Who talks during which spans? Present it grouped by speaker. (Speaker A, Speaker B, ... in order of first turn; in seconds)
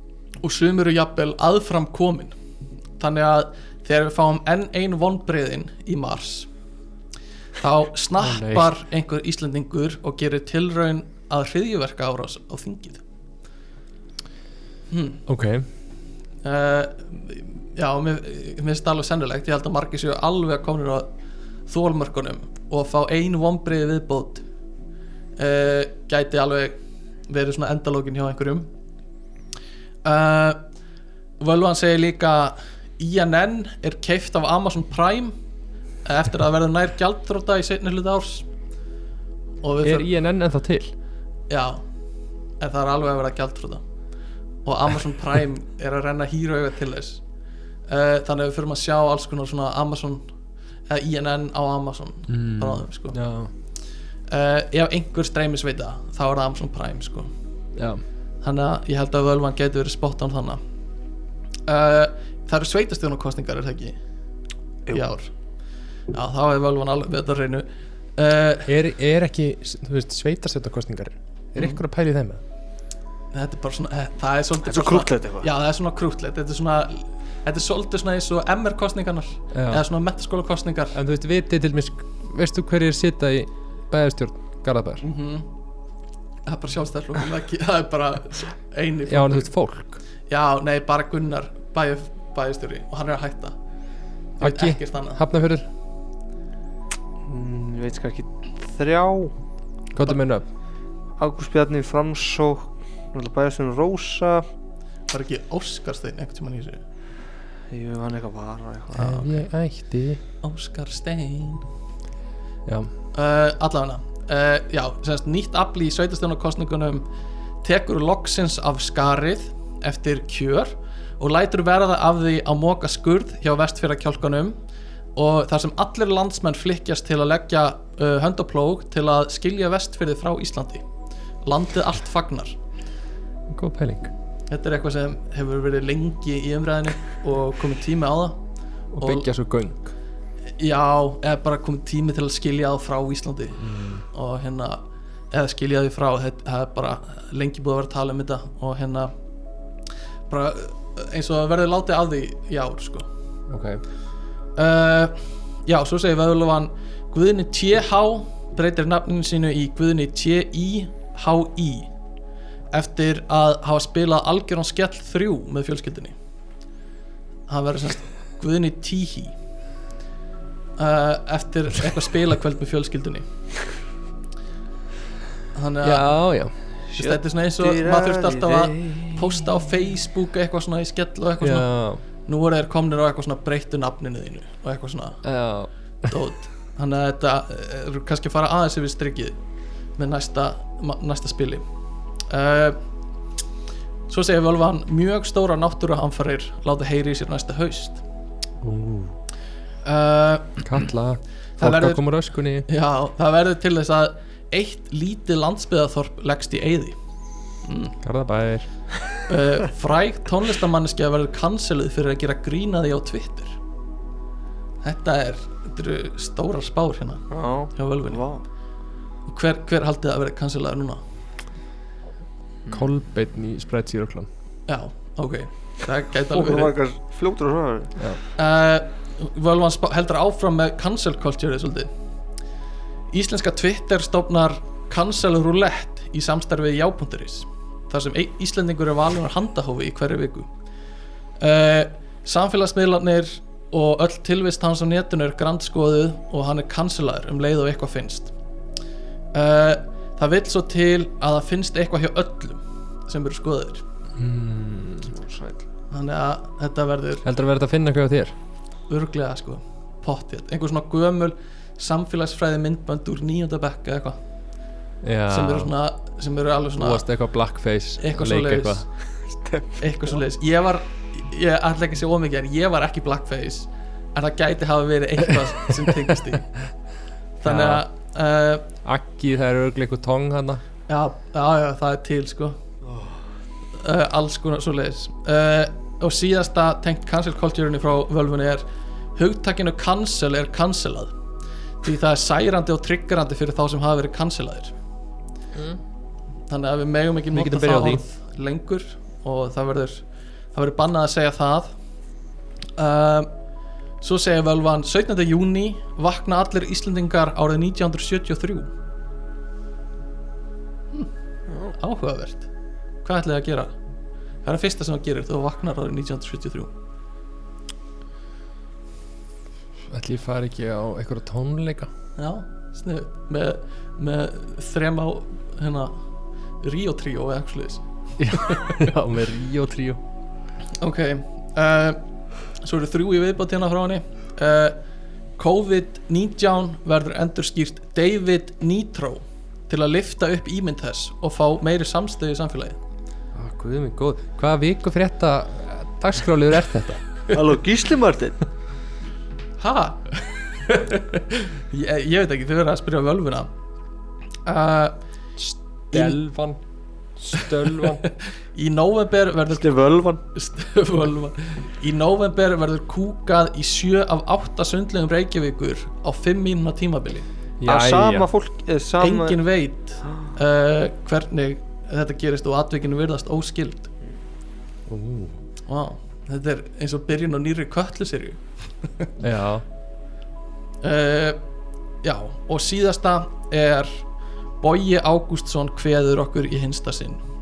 Speaker A: 0.4-2.4, 3.0-6.5, 7.6-13.0, 14.9-15.2, 16.4-21.1, 21.7-24.4, 25.4-26.8, 27.3-28.7, 30.0-30.6, 31.4-35.4, 36.0-38.5, 39.6-40.1, 41.5-41.8, 42.6-43.8, 44.6-47.2, 47.9-50.3, 50.9-53.2, 54.3-57.3, 58.4-60.6, 61.7-64.0, 64.9-65.3, 66.1-68.7, 73.3-81.0, 85.0-85.5, 86.5-89.5, 90.3-93.6, 94.4-95.2, 105.1-106.8, 108.9-109.2, 110.4-111.7, 113.1-117.0, 117.6-124.6, 125.2-130.8, 131.4-132.6, 134.5-138.4, 139.0-139.3, 140.6-149.1, 150.3-153.1, 154.6-161.9, 162.7-166.2, 167.5-169.3, 170.8-173.3, 175.5-176.1, 176.9-185.2, 186.1-189.4, 190.0-191.7, 192.3-192.8, 194.1-198.0, 199.8-200.6, 201.6-202.1, 202.7-207.0, 207.6-208.0, 209.3-213.6, 214.8-218.2, 219.3-221.0, 224.7-226.7, 228.4-231.9, 233.1-240.5, 241.4-248.3, 249.3-253.8, 255.9-257.3, 258.9-264.2, 265.3-267.1, 268.0-268.9, 269.8-276.5, 277.4-278.7, 280.9-282.6, 283.8-288.6, 289.2-291.1, 291.8-294.8, 296.5-301.8, 302.8-303.3, 304.0-308.7, 311.7-312.5, 313.0-313.7, 314.4-316.7, 322.2-326.0, 326.6-328.8, 330.8-332.0, 332.6-334.8, 335.4-342.8, 349.6-353.5, 354.5-355.0, 355.9-356.2, 357.4-359.7, 360.3-367.3, 369.0-373.9, 375.7-379.1, 380.8-381.4, 382.0-384.1, 384.6-387.2
Speaker B: 8.2-8.7, 15.3-15.7, 39.8-40.9, 52.3-53.5, 57.8-58.0, 68.7-72.4, 79.5-79.8, 80.9-85.0, 89.1-90.0, 94.4-95.7, 99.9-100.5, 109.0-110.2, 133.5-134.1, 138.9-139.9, 143.6-144.0, 153.5-153.8, 175.8-176.5, 181.4-182.0, 185.2-186.1, 198.6-199.2, 200.6-202.7, 208.0-208.7, 222.7-224.3, 254.2-255.1, 257.2-258.4, 265.0-265.7, 266.8-268.9, 277.4-277.9, 278.9-280.6, 295.5-295.8, 297.3-298.0, 319.9-321.9, 328.2-330.0, 343.4-347.0, 355.4-356.6, 357.2-358.0, 367.6-368.3, 374.9-375.4, 379.2-379.6
Speaker C: 74.7-75.5, 97.3-99.3, 101.2-104.4, 107.7-109.3, 176.9-179.4, 217.3-218.4, 226.3-228.0, 255.1-255.6, 347.3-348.4, 359.5-360.2, 367.6-369.4